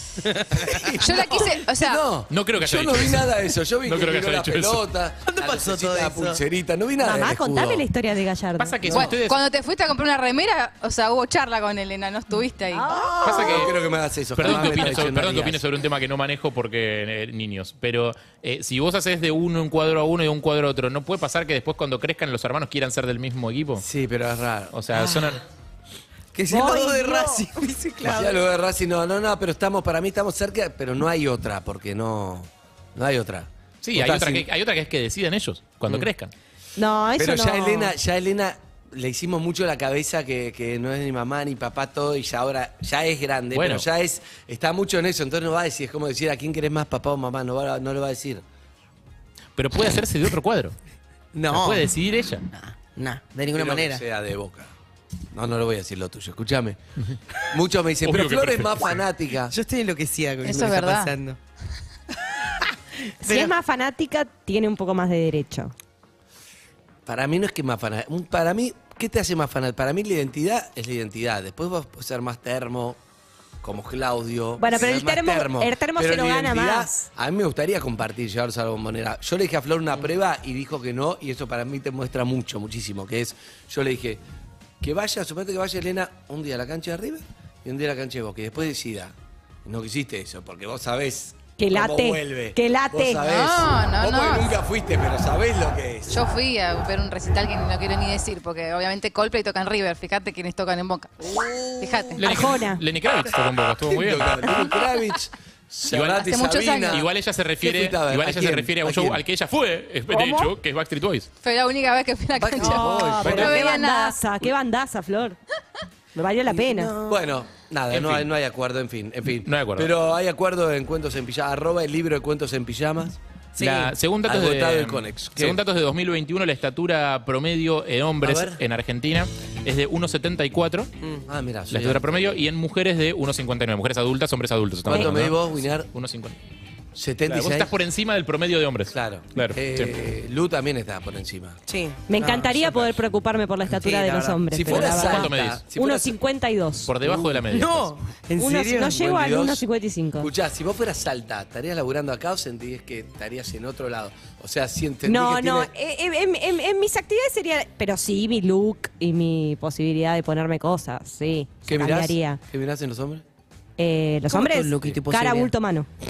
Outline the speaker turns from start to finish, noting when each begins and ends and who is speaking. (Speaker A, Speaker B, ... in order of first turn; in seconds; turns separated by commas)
Speaker A: 0.3-0.9, Speaker B: 0.5-7.8, Speaker C: 1.0-2.0, Speaker D: 2.3-4.8, Speaker A: 5.3-6.4, Speaker E: 7.0-8.8, Speaker D: 8.6-9.4, Speaker B: 8.9-9.2, Speaker C: 8.9-12.9, Speaker E: 12.7-13.6, Speaker B: 13.2-15.6, Speaker D: 13.2-13.8, Speaker D: 14.3-23.9, Speaker B: 23.8-24.8, Speaker D: 24.7-25.4, Speaker A: 26.3-28.4, Speaker E: 26.5-27.4, Speaker B: 28.0-34.5, Speaker D: 33.8-36.3, Speaker E: 36.8-37.9, Speaker B: 37.2-48.4, Speaker D: 43.5-43.9, Speaker D: 49.6-50.8, Speaker A: 51.3-51.9, Speaker D: 51.5-52.5, Speaker A: 52.5-54.0, Speaker B: 53.5-54.7, Speaker B: 55.3-56.8, Speaker B: 57.5-59.5, Speaker D: 58.0-59.0, Speaker A: 59.5-61.4, Speaker C: 60.4-61.1, Speaker A: 63.2-63.5, Speaker E: 63.2-65.7, Speaker B: 67.1-73.0, Speaker B: 73.6-84.2, Speaker E: 74.6-77.1, Speaker B: 84.8-96.3, Speaker E: 91.6-93.3, Speaker C: 93.2-94.6, Speaker C: 96.1-102.2, Speaker B: 101.2-102.2, Speaker D: 102.2-104.5, Speaker E: 102.2-102.8, Speaker B: 103.8-109.2, Speaker D: 105.9-106.3, Speaker C: 106.2-107.0, Speaker D: 106.9-111.3, Speaker C: 111.4-114.2, Speaker B: 112.3-113.5, Speaker E: 112.6-115.4, Speaker D: 113.2-113.5, Speaker E: 116.1-116.9, Speaker A: 116.5-117.1, Speaker B: 117.0-123.2, Speaker D: 117.9-118.3, Speaker D: 119.5-119.9, Speaker A: 123.6-123.9, Speaker D: 123.6-130.9, Speaker B: 124.2-125.6, Speaker B: 128.2-128.6, Speaker B: 131.3-132.4, Speaker D: 131.7-136.4, Speaker B: 134.8-135.9, Speaker B: 136.9-137.7, Speaker D: 137.3-139.9, Speaker B: 138.9-141.6, Speaker A: 141.7-142.6, Speaker E: 142.1-146.9, Speaker A: 143.8-144.4, Speaker B: 144.5-146.2, Speaker D: 145.0-145.6, Speaker D: 146.9-147.9, Speaker B: 147.0-147.7, Speaker A: 147.5-148.9, Speaker E: 148.4-150.3, Speaker B: 148.8-149.6, Speaker B: 150.2-155.7, Speaker E: 155.0-162.4, Speaker B: 161.7-163.2, Speaker E: 163.8-165.9, Speaker A: 164.3-165.5